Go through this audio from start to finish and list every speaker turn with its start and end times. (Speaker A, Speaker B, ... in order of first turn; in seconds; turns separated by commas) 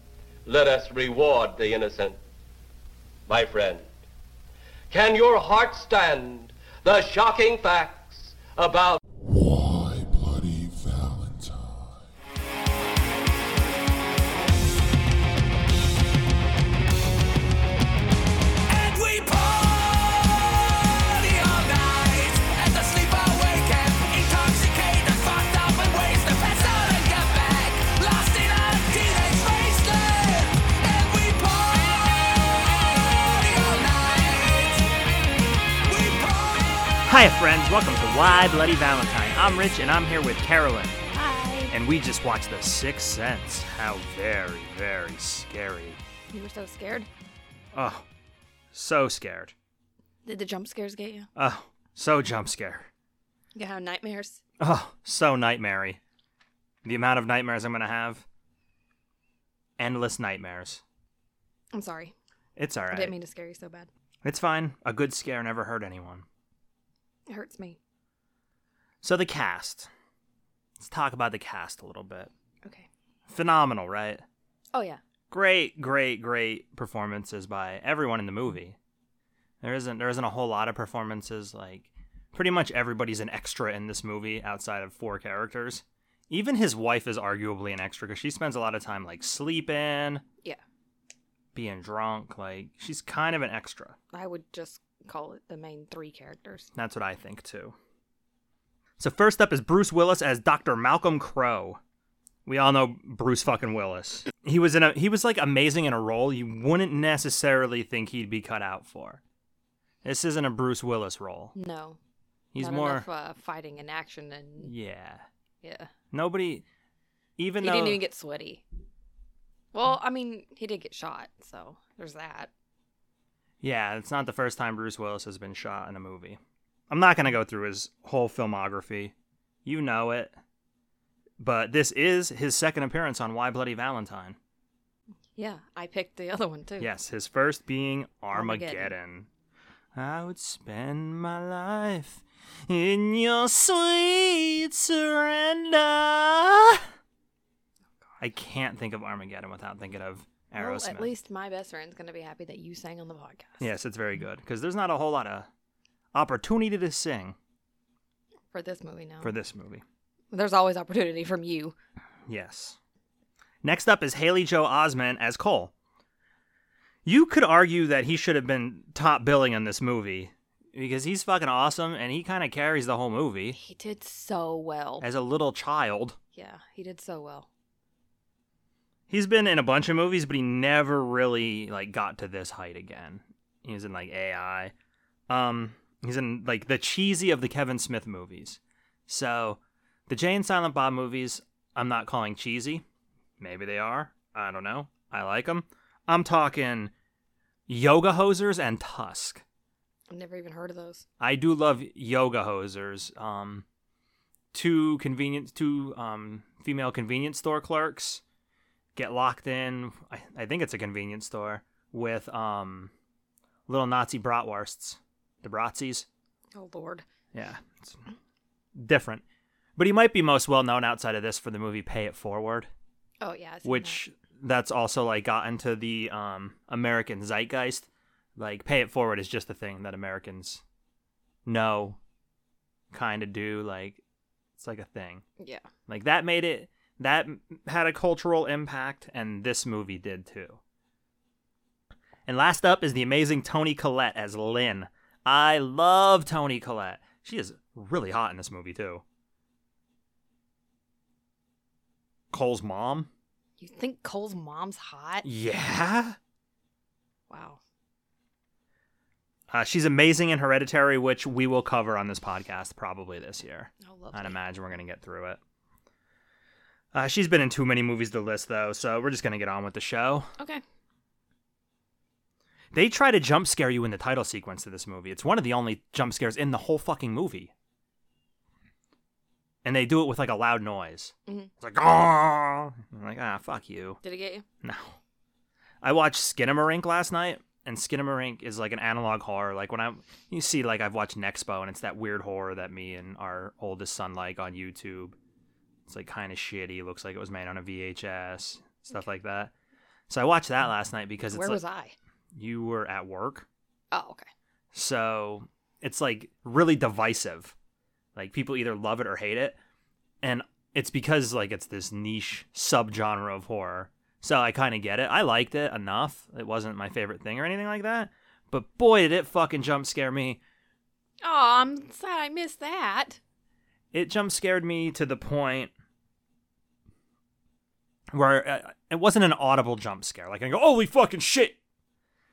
Speaker A: 0.5-2.2, Speaker A: 3.3-3.9, Speaker A: 4.9-9.0, Speaker B: 9.2-12.1, Speaker C: 18.7-34.9, Speaker C: 35.9-37.2, Speaker D: 37.1-41.0, Speaker E: 41.1-41.7, Speaker D: 41.7-46.0, Speaker E: 46.3-47.1, Speaker D: 47.7-48.1, Speaker D: 48.7-49.5, Speaker E: 50.2-51.3, Speaker D: 51.4-52.9, Speaker E: 53.5-54.4, Speaker D: 54.6-56.0, Speaker D: 56.9-58.2, Speaker D: 59.8-60.8, Speaker E: 61.7-62.1, Speaker D: 62.6-63.1, Speaker E: 62.9-63.9, Speaker D: 64.2-66.2, Speaker E: 67.3-67.8, Speaker D: 69.0-69.9, Speaker D: 70.8-72.3, Speaker D: 73.3-74.2, Speaker E: 74.7-75.0, Speaker D: 75.3-78.8, Speaker D: 79.6-90.2, Speaker D: 91.5-94.0, Speaker E: 94.1-96.7, Speaker D: 96.8-97.8, Speaker D: 99.0-101.8, Speaker D: 102.5-109.2, Speaker D: 110.0-111.5, Speaker E: 111.5-112.0, Speaker D: 112.5-113.1, Speaker E: 112.6-114.7, Speaker D: 114.6-115.2, Speaker E: 115.6-115.9, Speaker D: 116.1-116.6, Speaker D: 117.4-118.0, Speaker E: 117.6-118.6, Speaker E: 119.7-122.5, Speaker D: 123.6-126.4, Speaker D: 126.9-129.1, Speaker D: 129.7-130.4, Speaker D: 131.4-134.4, Speaker E: 135.4-136.9, Speaker D: 136.8-139.3, Speaker E: 138.3-138.9, Speaker D: 139.9-146.9, Speaker D: 148.2-151.1, Speaker E: 150.6-153.7, Speaker D: 153.6-155.5, Speaker D: 156.1-157.4, Speaker E: 158.5-159.4, Speaker D: 159.2-159.8, Speaker E: 160.3-161.8, Speaker D: 162.3-162.8, Speaker D: 163.6-165.7, Speaker D: 167.1-173.6, Speaker E: 173.5-175.1, Speaker D: 175.0-176.2, Speaker E: 176.3-177.5, Speaker D: 179.1-184.7, Speaker D: 185.3-192.8, Speaker D: 193.4-196.9, Speaker D: 197.7-199.4, Speaker E: 200.1-201.0, Speaker D: 201.2-203.7, Speaker D: 204.5-208.2, Speaker D: 208.9-212.9, Speaker D: 213.7-216.1, Speaker E: 216.5-217.1, Speaker D: 217.3-218.0, Speaker D: 218.8-219.2, Speaker D: 219.8-222.7, Speaker E: 223.2-224.0, Speaker D: 223.6-230.6, Speaker D: 231.5-232.0, Speaker D: 232.9-234.0, Speaker D: 234.6-235.2, Speaker E: 235.4-235.6, Speaker D: 235.9-240.6, Speaker D: 242.3-249.0, Speaker D: 252.3-253.1, Speaker E: 253.6-255.3, Speaker D: 255.2-256.2, Speaker E: 257.3-257.6, Speaker D: 259.5-265.4, Speaker E: 263.8-264.4, Speaker D: 266.9-270.3, Speaker D: 272.7-277.5, Speaker D: 279.6-284.0, Speaker E: 284.0-284.4, Speaker D: 284.6-285.0, Speaker D: 285.8-295.2, Speaker D: 295.9-299.5, Speaker D: 300.1-301.6, Speaker E: 301.3-301.9, Speaker D: 302.3-303.5, Speaker E: 303.9-304.3, Speaker D: 304.7-307.5, Speaker D: 308.1-309.6, Speaker D: 310.2-320.4, Speaker E: 321.2-323.2, Speaker D: 323.9-325.7, Speaker D: 328.1-331.6